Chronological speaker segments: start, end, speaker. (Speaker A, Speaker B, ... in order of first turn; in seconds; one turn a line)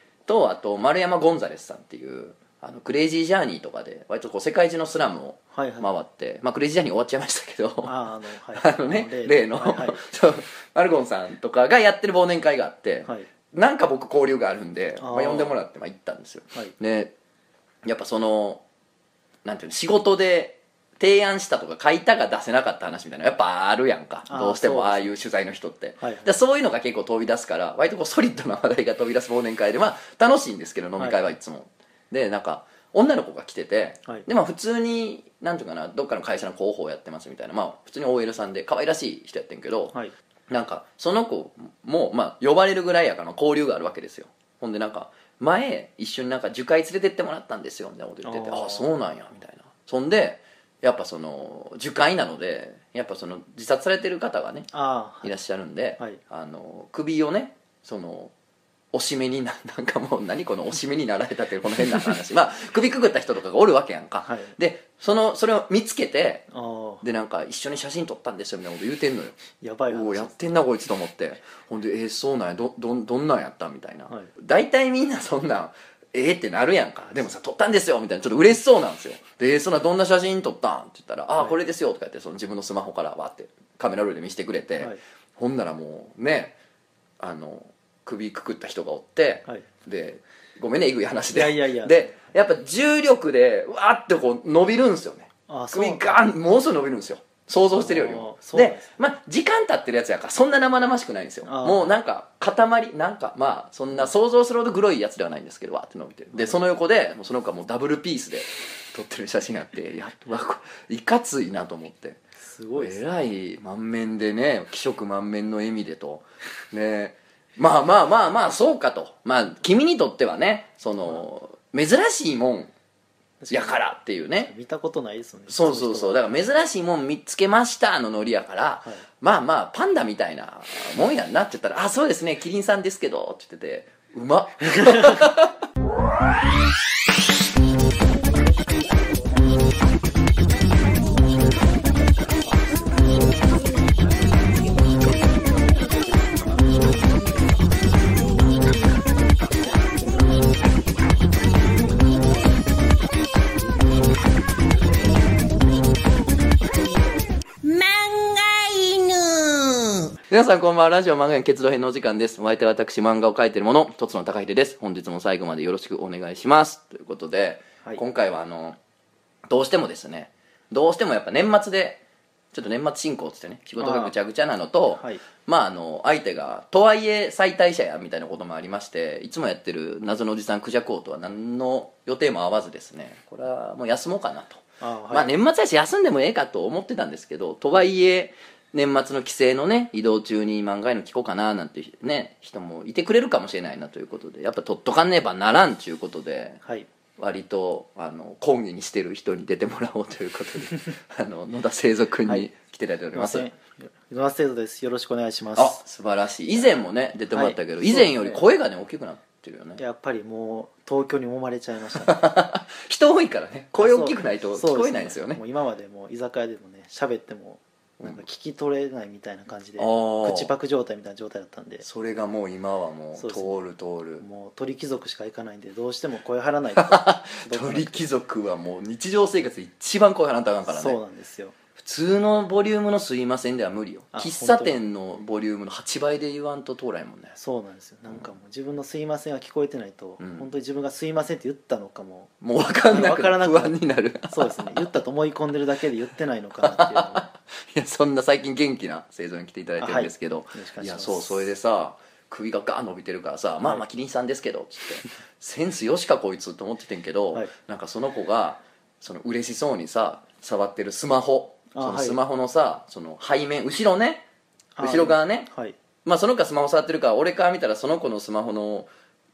Speaker A: 0.3-8.0
Speaker B: 5.5-5.9
Speaker B: 7.8-10.0
Speaker A: 8.5-17.1
Speaker B: 15.0-15.5
Speaker A: 17.8-18.6
Speaker A: 19.4-39.9
Speaker B: 24.3-25.1
Speaker B: 26.0-26.3
Speaker B: 31.0-31.3
Speaker A: 40.5-54.7
Speaker B: 48.2-48.9
Speaker B: 54.7-55.3
Speaker A: 55.2-58.3
Speaker A: 58.9-66.5
Speaker B: 64.2-64.5
Speaker B: 66.5-67.0
Speaker A: 67.0-86.5
Speaker B: 69.6-70.5
Speaker A: 87.2-112.2
Speaker B: 91.3-92.3
Speaker B: 95.5-96.3
Speaker B: 97.7-98.9
Speaker B: 101.4-101.9
Speaker B: 112.4-113.0
Speaker A: 112.8-122.7
Speaker B: 123.4-126.3
Speaker A: 123.5-124.5
Speaker A: 125.5-135.5
Speaker C: 156.7-157.0
Speaker C: 157.6-160.1
Speaker A: 160.3-168.8
Speaker A: 169.5-172.0
Speaker A: 172.5-196.6
Speaker B: 173.8-174.1
Speaker B: 174.9-175.2
Speaker B: 184.8-185.3
Speaker A: 197.2-203.5
Speaker B: 203.1-205.8
Speaker A: 205.6-209.8
Speaker B: 207.3-208.4
Speaker B: 209.8-212.2
Speaker A: 211.9-215.4
Speaker B: 213.8-221.8
Speaker A: 219.8-220.5
Speaker A: 221.8-224.2
Speaker B: 223.1-223.6
Speaker B: 224.2-228.1
Speaker A: 226.7-231.0
Speaker B: 230.7-231.6
Speaker A: 231.8-237.3
Speaker B: 234.1-234.8
Speaker B: 237.4-242.3
Speaker A: 240.2-240.5
Speaker A: 242.4-244.9
Speaker B: 242.9-243.8
Speaker B: 244.3-247.3
Speaker A: 246.6-264.2
Speaker B: 249.8-251.4
Speaker B: 261.7-262.2
Speaker B: 264.8-265.8
Speaker A: 264.8-265.5
Speaker A: 266.0-268.9